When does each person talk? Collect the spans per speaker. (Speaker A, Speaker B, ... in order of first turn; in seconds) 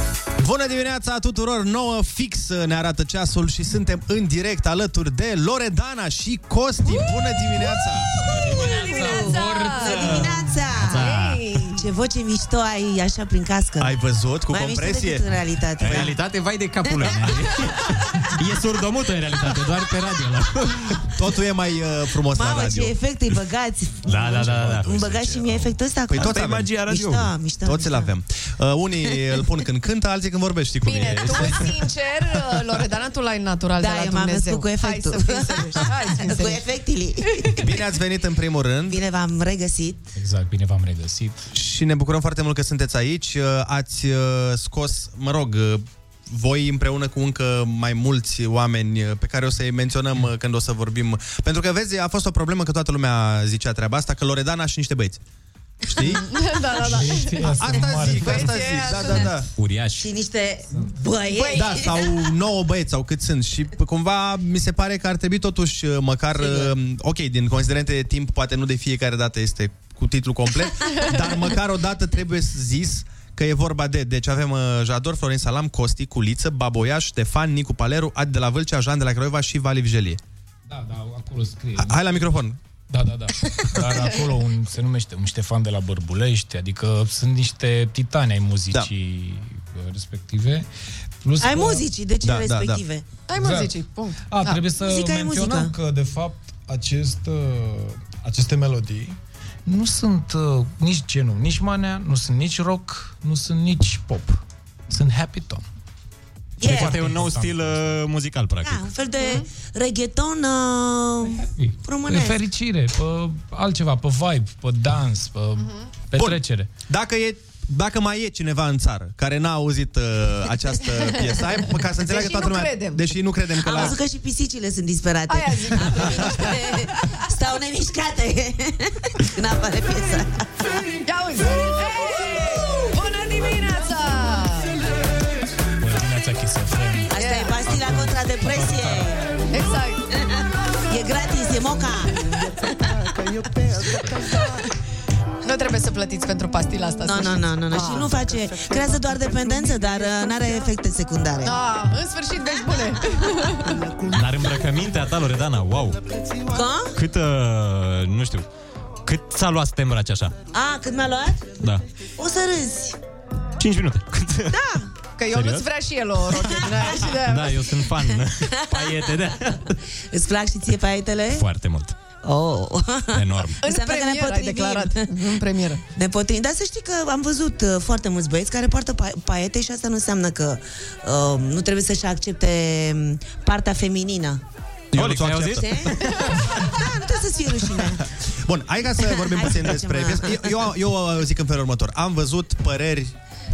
Speaker A: 0.4-8.1, 13.8-16.1, 21.1-22.9, 26.1-26.8, 27.6-31.8, 37.6-39.0, 41.5-55.2, 55.9-56.3, 57.0-59.5, 61.5-80.2, 81.8-82.6, 92.2-92.8, 116.2-124.0, 184.9-185.8, 188.4-193.1
Speaker B: 8.2-11.1, 11.7-13.9, 14.5-16.1, 16.9-17.2, 22.3-28.1, 33.8-37.6, 38.9-40.0, 60.0-62.1, 66.4-66.7, 91.4-93.0, 94.7-95.7, 106.6-106.9, 108.6-112.4, 123.6-130.6, 137.1-139.2, 140.1-143.0, 143.7-144.1, 147.0-151.6, 156.5-156.9, 160.5-161.5, 162.2-163.0, 164.5-164.9, 168.6-169.3, 170.1-171.4, 172.2-175.2, 175.9-184.4, 185.5-188.0, 189.0-190.5
Speaker C: 8.3-10.2, 40.1-41.5, 56.8-58.6, 80.7-82.4, 82.9-90.7, 91.2-91.9, 93.3-93.7, 94.2-105.6, 106.6-108.0, 111.3-116.7, 135.8-137.1, 137.7-139.0
Speaker D: 8.5-9.0, 9.9-11.4, 15.8-21.0, 24.0-27.3, 59.6-60.1, 106.6-108.9, 154.1-156.0, 156.9-158.4, 159.0-160.3, 163.6-164.6, 165.3-165.7, 166.9-169.8, 171.3-171.9, 173.1-173.6, 184.9-185.6
Speaker E: 8.6-10.2, 10.9-11.8, 30.8-36.6, 56.0-57.5, 58.1-59.3, 61.3-61.9, 93.3-94.6, 109.2-109.5, 115.6-115.9, 122.0-123.1, 125.3-126.8, 131.0-134.8, 137.2-137.6, 139.5-140.0, 145.4-148.2, 151.4-153.8, 165.2-167.7, 173.6-175.8